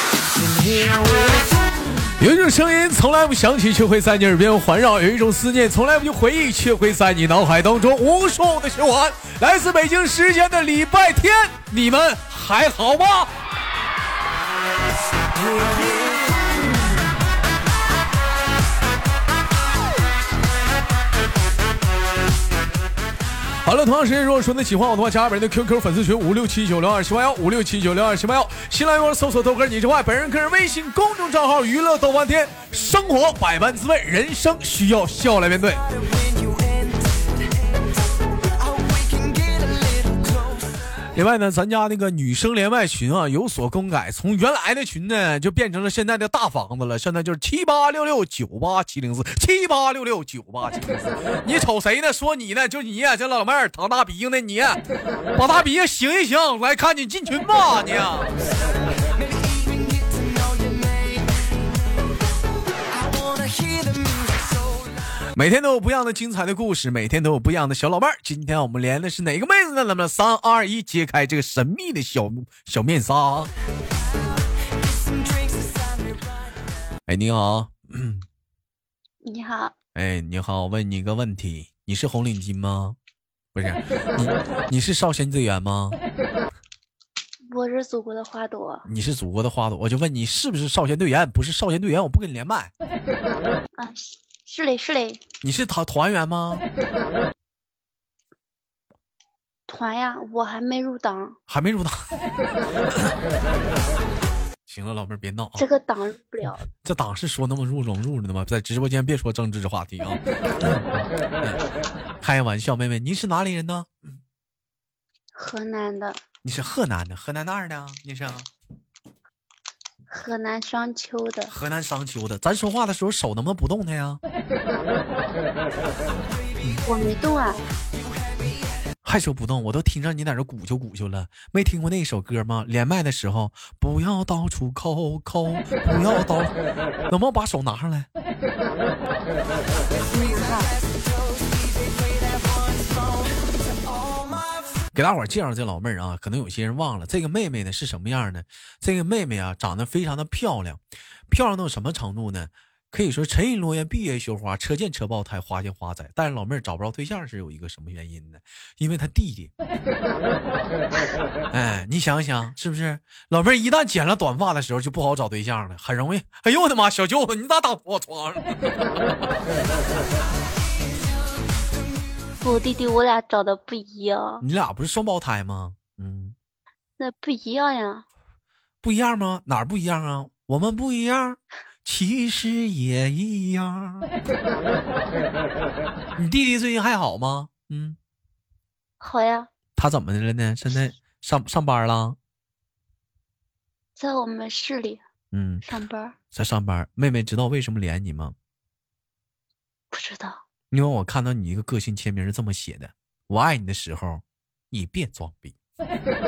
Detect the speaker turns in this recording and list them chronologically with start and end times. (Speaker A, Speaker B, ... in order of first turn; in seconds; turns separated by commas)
Speaker A: 0.3-1.6, Speaker B: 2.2-13.3, Speaker A: 15.4-16.8, Speaker B: 23.6-35.8, Speaker A: 35.7-37.8, Speaker A: 38.5-40.6, Speaker B: 41.1-54.8, Speaker B: 55.3-58.3, Speaker A: 59.0-61.6, Speaker A: 62.9-64.8, Speaker B: 65.3-73.5, Speaker A: 74.2-76.4, Speaker B: 77.1-78.2, Speaker C: 79.2-79.7, Speaker B: 79.9-83.0, Speaker B: 83.5-86.0, Speaker C: 87.5-88.9, Speaker B: 88.8-92.7, Speaker C: 93.8-95.2, Speaker B: 95.4-96.7, Speaker C: 99.7-101.4, Speaker B: 101.5-102.0, Speaker B: 102.9-103.2, Speaker B: 104.7-105.6, Speaker C: 105.5-106.7, Speaker B: 106.7-111.6, Speaker B: 112.2-113.9, Speaker C: 115.3-116.2, Speaker B: 116.4-118.5, Speaker C: 120.1-121.5, Speaker B: 121.5-124.2, Speaker C: 126.8-127.6, Speaker B: 129.0-136.6, Speaker B: 137.1-138.1, Speaker A: 140.0-143.3, Speaker C: 140.1-140.7, Speaker A: 143.8-144.5, Speaker B: 144.9-159.5, Speaker B: 161.5-169.2, Speaker C: 172.4-174.4, Speaker B: 174.4-176.3, Speaker C: 177.0-178.1, Speaker B: 178.8-184.1, Speaker B: 186.2-188.0, Speaker C: 189.0-189.5, Speaker B: 189.8-192.2, Speaker C: 193.9-195.0, Speaker B: 195.3-195.6, Speaker C: 195.6-196.2, Speaker B: 196.3-198.3, Speaker C: 199.9-200.4, Speaker B: 200.7-205.5